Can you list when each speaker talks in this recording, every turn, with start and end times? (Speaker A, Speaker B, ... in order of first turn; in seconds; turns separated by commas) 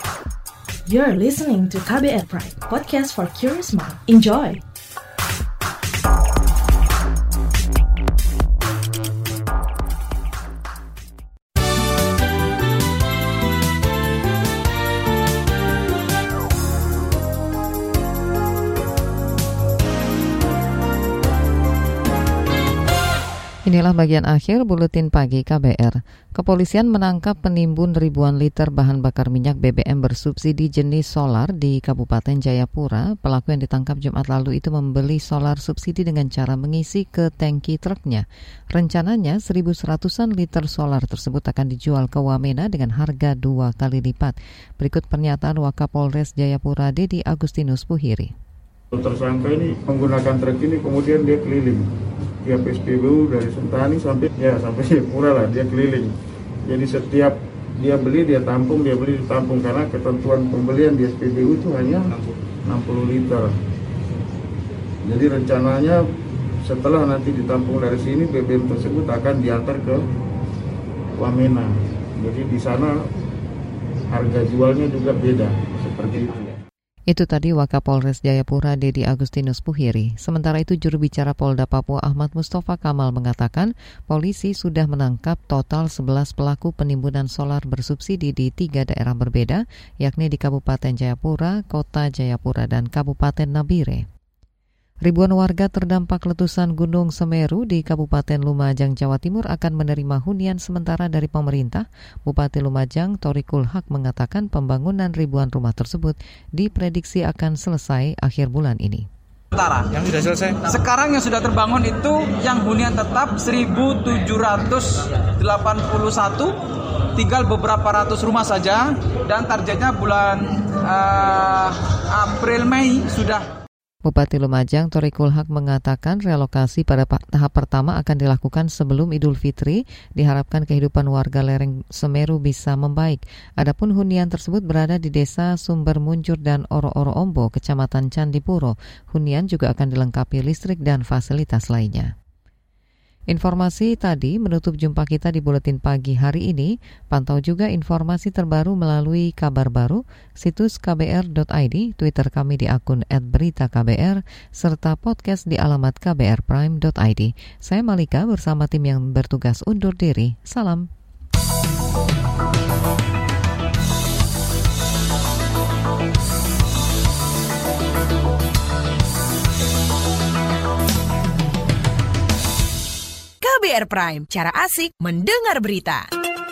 Speaker A: 0.8-4.6, Speaker B: 23.6-48.3, Speaker C: 48.9-51.9, Speaker C: 52.4-56.1, Speaker C: 56.6-62.1, Speaker C: 62.6-63.5, Speaker C: 65.0-66.0, Speaker C: 66.6-70.0, Speaker C: 71.1-73.0, Speaker C: 74.1-76.5, Speaker B: 77.1-94.0, Speaker B: 95.0-109.1, Speaker D: 109.5-116.5, Speaker D: 117.2-123.5, Speaker B: 124.0-142.1, Speaker B: 143.3-160.9, Speaker E: 173.4-176.1